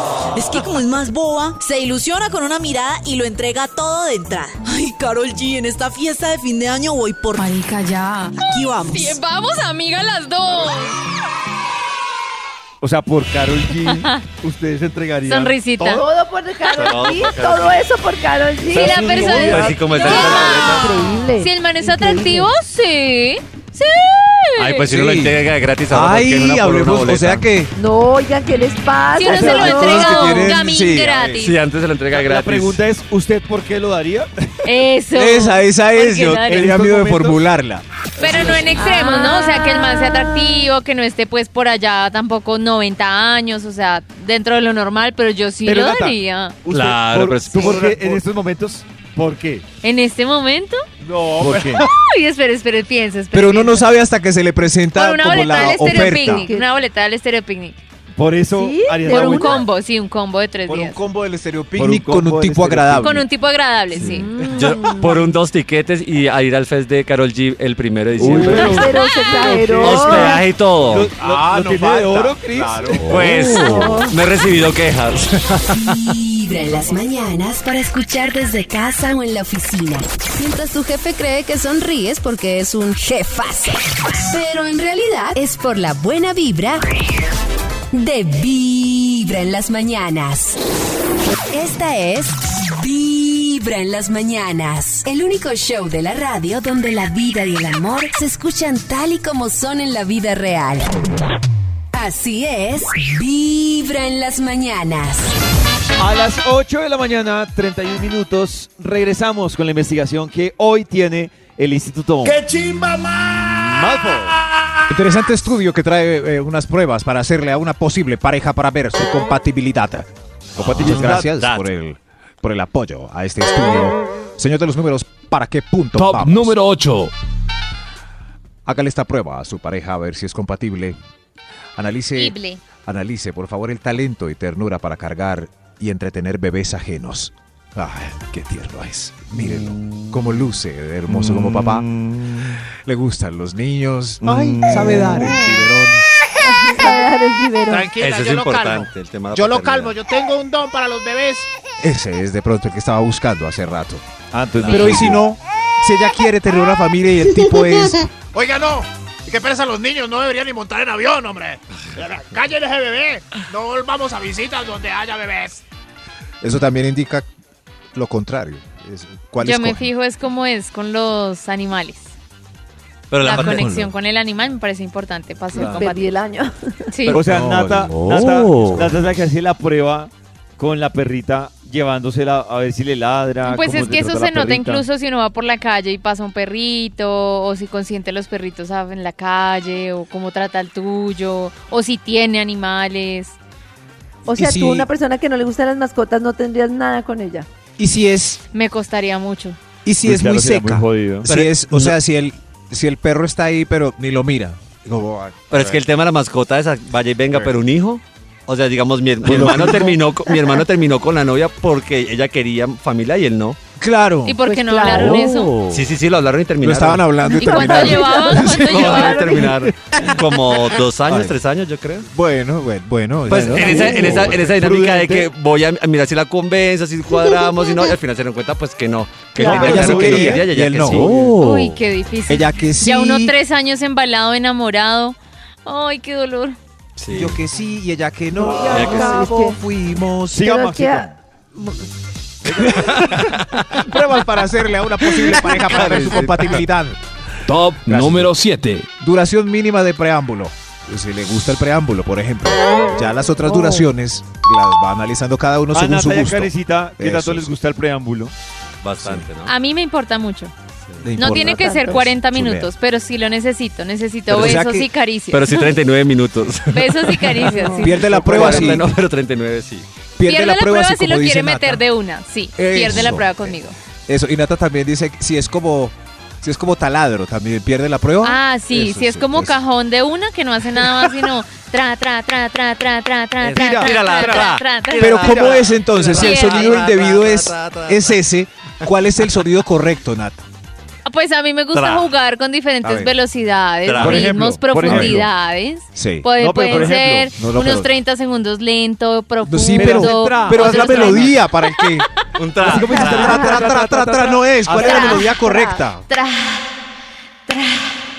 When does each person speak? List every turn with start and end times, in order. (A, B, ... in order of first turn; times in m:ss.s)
0:00.4-0:07.6 A
0:07.4-0:11.0 B
0:08.4-0:09.2 A
0:12.8-0:16.0 C
0:13.9-0:14.2 B
0:15.3-0:16.0 B
0:15.9-0:22.5 D
0:16.7-0:17.0 B
0:16.7-0:17.8 E
0:18.7-0:24.8 B
0:18.7-0:20.6 C
0:18.8-0:21.0 E
0:24.6-0:27.4 E
0:24.9-0:27.7 F
0:27.8-0:30.4 D
0:29.2-0:31.6 B
0:29.3-0:31.4 F
0:31.4-0:32.8 E
0:32.1-0:34.3 C
0:34.6-0:36.7 B
0:35.1-0:37.8 F
0:36.5-0:37.4 C
0:38.2-0:38.7 C
0:38.2-0:46.6 B
0:38.8-0:39.2 D
0:45.6-0:49.6 C
0:46.7-0:48.2 E
0:47.6-0:48.2 F
0:49.8-0:50.8 B
0:51.0-0:51.9 F
0:51.2-0:51.9 C
0:51.8-0:53.9 B
0:53.3-0:56.5 F
0:54.9-0:57.8 B
0:55.5-0:56.7 D
0:58.2-0:59.7 C
0:58.5-0:59.6 D
0:59.0-1:01.0 B
1:00.7-1:03.2 F
1:01.8-1:03.2 C
1:03.0-1:04.3 B
1:04.0-1:08.9 E
1:04.0-1:05.2 D
1:08.2-1:13.3 C
1:08.3-1:10.4 D
1:08.9-1:09.5 B
1:09.8-1:11.1 E
1:11.2-1:13.3 F
1:13.1-1:16.0 E
1:13.6-1:14.1 D
1:15.7-1:26.8 G
1:27.9-1:30.6 G
1:31.5-1:41.0 G
1:41.9-1:45.3 G
1:46.0-1:52.4 C
1:52.2-1:54.7 H
1:53.4-1:54.4 C
1:54.9-2:06.6 F
2:00.6-2:01.6 E
2:00.6-2:01.3 C
2:06.0-2:07.1 I
2:08.7-2:11.0 F
2:11.8-2:21.9 F
2:12.2-2:12.6 B
2:19.5-2:20.2 E
2:21.1-2:22.6 C
2:22.7-2:26.0 F
2:24.2-2:25.5 C
2:26.4-2:27.9 D
2:27.7-2:31.5 J
2:28.0-2:30.0 E
2:31.8-2:34.0 F
2:34.3-2:35.2 C
2:34.6-2:35.1 E
2:34.7-2:38.1 F
2:38.3-2:45.6 J
2:46.4-2:47.3 F
2:47.9-2:49.9 F
2:49.4-2:52.1 B
2:53.1-2:53.9 E
2:53.2-2:56.1 B
2:53.3-2:53.7 F
2:55.6-2:55.8 E
2:55.7-2:56.9 D
2:56.9-2:57.2 B
2:57.1-3:04.8 C
2:57.1-2:58.0 F
2:58.6-2:58.9 F
3:03.4-3:13.4 B
3:14.3-3:17.5 D
3:14.3-3:14.9 F
3:17.8-3:18.4 F
3:18.5-3:19.6 B
3:19.8-3:25.8 F
3:20.0-3:21.3 C
3:21.3-3:22.0 E
3:25.5-3:33.6 E
3:29.2-3:30.0 F
3:29.2-3:30.0 C
3:33.8-3:34.4 F
3:34.2-3:35.6 B
3:34.5-3:35.2 D
3:35.2-3:35.4 G
3:35.6-3:37.1 E
3:36.6-3:38.9 F
3:37.2-3:39.6 D
3:37.3-3:39.4 B
3:38.4-3:42.1 E
3:41.0-3:41.4 F
3:42.1-3:44.5 F
3:43.3-3:51.7 E
3:43.3-3:45.3 C
3:49.4-3:51.1 F
3:49.4-3:50.5 C
3:49.4-3:49.7 D
3:51.0-3:51.3 C
3:51.4-3:56.6 B
3:52.3-3:53.3 F
3:57.0-3:57.4 E
3:57.1-4:00.5 F
3:58.4-3:59.6 D
3:58.7-3:59.3 E
4:00.3-4:01.2 C
4:00.4-4:01.9 D
4:02.4-4:03.3 C
4:02.7-4:07.0 F
4:05.4-4:06.6 E
4:07.5-4:08.9 I
4:07.8-4:08.3 F
4:09.0-4:17.5 F
4:15.7-4:18.3 C
4:18.8-4:19.5 E
4:19.0-4:19.3 F
4:19.4-4:20.5 B
4:21.0-4:22.7 F
4:21.2-4:25.8 B
4:24.3-4:24.9 F
4:24.3-4:24.6 E
4:25.3-4:29.9 E
4:26.7-4:28.2 B
4:27.6-4:27.8 D
4:27.8-4:28.9 F
4:28.2-4:28.7 C
4:30.2-4:31.8 F
4:30.2-4:33.8 B
4:32.6-4:39.6 F
4:38.2-4:45.5 B
4:43.4-4:48.2 E
4:43.4-4:44.6 C
4:45.0-4:50.4 F
4:45.1-4:45.6 C
4:46.2-4:46.8 B
4:51.1-5:02.0 B
4:51.7-4:52.1 E
4:52.8-4:53.1 F
4:53.8-4:54.4 E
4:54.0-4:55.3 C
4:54.8-4:55.2 F
4:56.0-4:57.9 F
4:56.3-4:57.3 C
4:59.4-5:02.1 F
4:59.7-5:01.3 C
5:02.4-5:03.5 E
5:02.6-5:05.2 C
5:02.6-5:06.1 F
5:04.8-5:05.3 B
5:05.3-5:05.8 D
5:06.1-5:06.7 B
5:07.5-5:08.0 B